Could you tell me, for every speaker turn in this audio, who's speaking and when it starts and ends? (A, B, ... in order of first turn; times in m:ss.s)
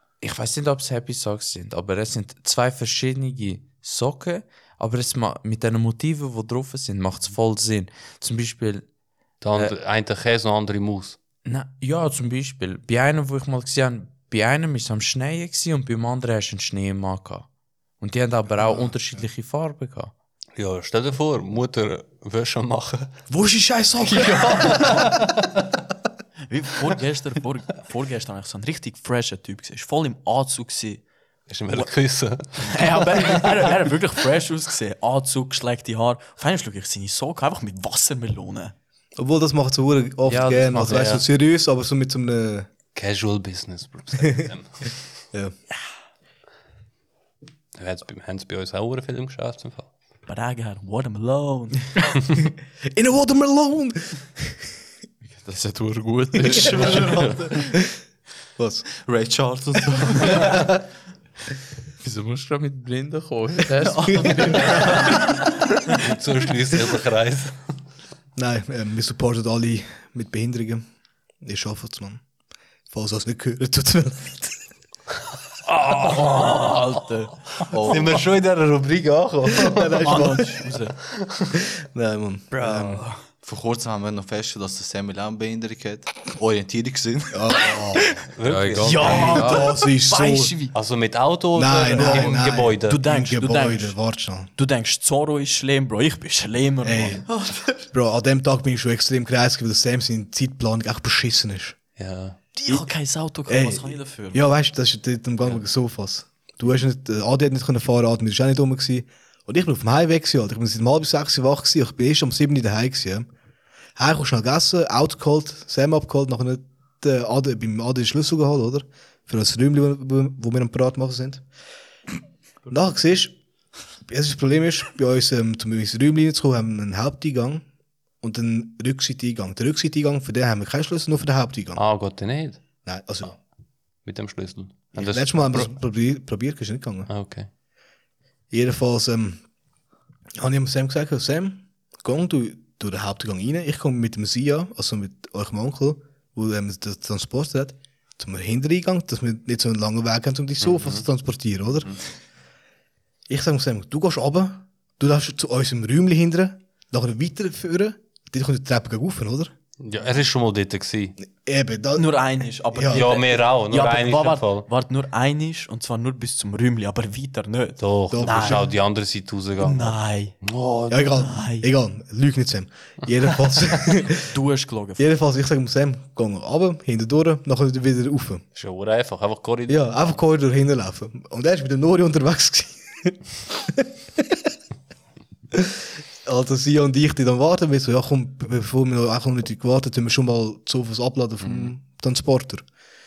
0:00.2-0:08.8 A
0:09.4-0:11.2 B
0:11.4-0:17.4 A
0:18.0-0:20.1 A
0:20.6-0:23.1 B
0:23.3-0:25.1 C
0:24.1-0:25.2 B
0:26.5-0:31.0 D
0:31.5-0:33.4 B
0:32.4-0:38.7 D
0:39.2-0:42.7 C
0:40.3-0:41.2 A
0:40.9-0:41.2 B
0:42.9-0:44.9 B
0:47.8-0:49.9 B
0:50.3-0:51.9 D
0:52.8-0:54.6 C
0:55.3-0:57.6 A
0:56.4-0:57.7 E
0:56.5-0:57.0 C
0:57.6-0:57.9 C
0:58.6-0:58.9 C
0:59.0-1:00.6 E
1:00.3-1:00.7 C
1:02.0-1:05.2 A
1:04.1-1:05.1 C
1:06.0-1:07.6 B
1:08.3-1:10.8 C
1:11.4-1:12.2 C
1:12.9-1:14.7 C
1:15.6-1:17.1 B
1:16.4-1:17.3 D
1:17.7-1:18.3 E
1:17.8-1:20.1 B
1:19.5-1:20.6 C
1:20.0-1:20.9 D
1:21.2-1:21.5 B
1:21.5-1:23.0 C
1:22.5-1:23.2 D
1:23.4-1:27.6 E
1:27.3-1:28.1 C
1:28.3-1:29.5 B
1:28.4-1:29.7 A
1:28.8-1:30.8 D
1:29.1-1:30.5 C
1:30.7-1:33.0 B
1:31.5-1:34.5 C
1:32.0-1:32.3 D
1:32.8-1:34.0 D
1:34.5-1:37.7 D
1:36.8-1:41.8 C
1:42.0-1:42.4 B
1:42.6-1:44.4 D
1:43.5-1:53.3 C
1:54.0-2:01.4 C
2:02.7-2:03.4 C
2:04.0-2:07.6 C
2:08.2-2:11.8 C
2:11.7-2:12.6 B
2:12.8-2:13.3 C
2:14.0-2:15.7 B
2:14.9-2:17.1 C
2:17.1-2:17.5 B
2:18.5-2:19.4 C
2:20.4-2:32.0 C
2:30.6-2:31.0 B
2:33.3-2:39.5 C
2:39.8-2:41.2 B
2:41.2-2:43.0 C
2:41.9-2:48.6 D
2:42.9-2:44.7 B
2:47.8-2:51.3 B
2:48.1-2:48.7 C
2:49.6-2:50.4 D
2:50.9-2:54.3 C
2:51.2-2:51.7 D
2:54.2-2:55.1 D
2:55.0-2:58.4 C
2:58.5-3:00.2 B
2:59.7-3:04.4 C
3:05.5-3:12.6 C